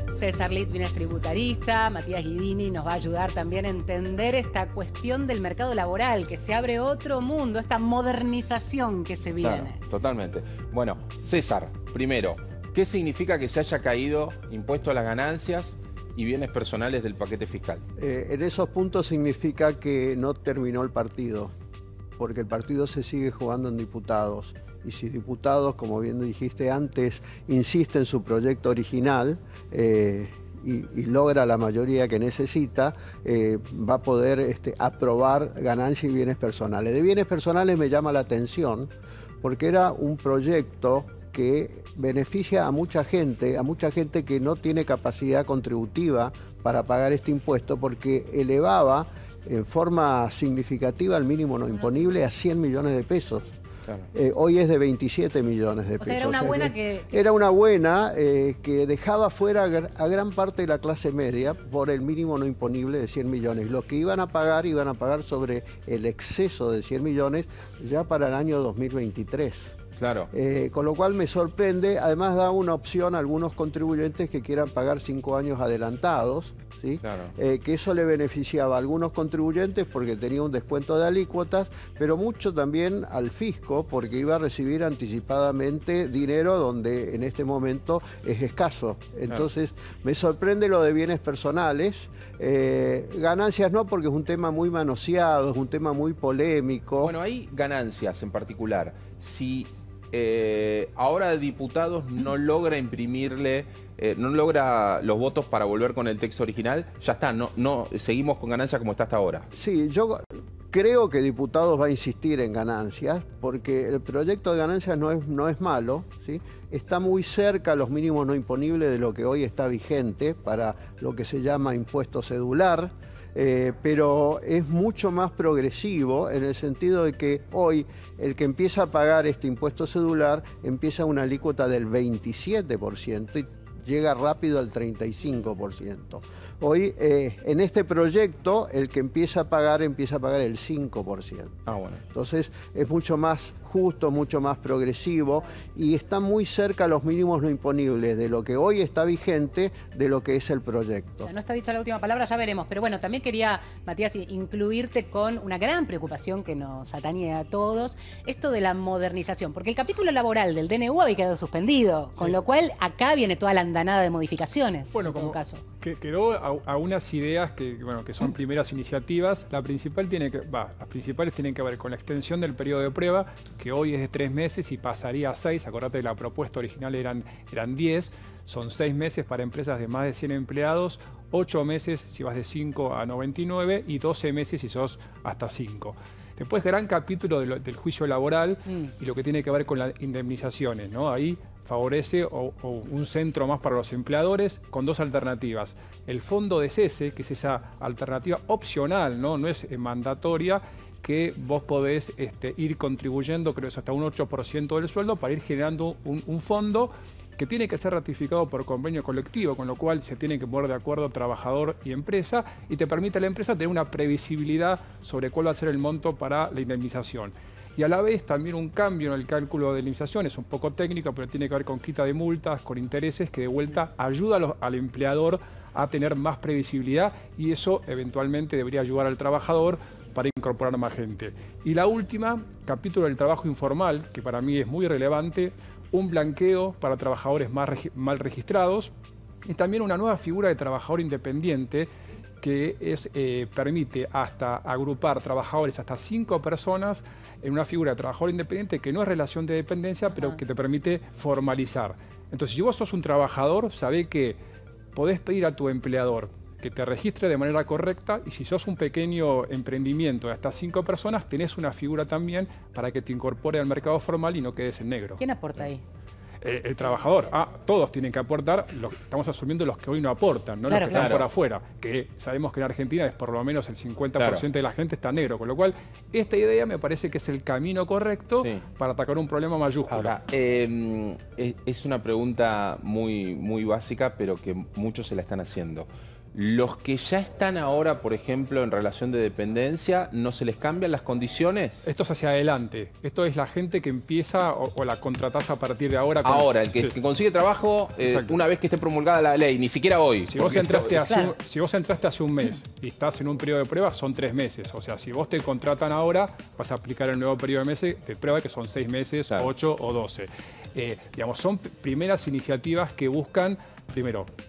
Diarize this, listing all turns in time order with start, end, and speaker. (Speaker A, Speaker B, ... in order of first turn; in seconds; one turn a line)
Speaker A: 0.1-9.8
Speaker B: 9.4-17.8
Speaker C: 18.0-21.5
Speaker C: 22.2-38.9
Speaker C: 39.4-53.5
Speaker C: 54.1-69.8
Speaker A: 56.0-57.2
Speaker B: 70.0-70.3
Speaker C: 70.3-97.1
Speaker B: 77.0-77.3
Speaker B: 97.0-109.5
Speaker C: 109.5-151.3
Speaker B: 141.7-142.0
Speaker A: 151.2-165.6
Speaker D: 164.9-238.9
Speaker D: 239.4-241.9
Speaker D: 242.4-254.4
Speaker A: 250.1-250.4
Speaker D: 254.9-265.2
Speaker A: 265.2-265.8
Speaker D: 266.4-280.1
Speaker A: 270.7-271.2
Speaker B: 270.9-271.2
Speaker B: 274.2-274.5
Speaker B: 278.3-278.6
Speaker B: 279.9-291.9
Speaker D: 291.8-296.9
Speaker B: 296.2-301.0
Speaker D: 298.0-298.3
Speaker D: 300.3-314.3
Speaker A: 301.0-301.3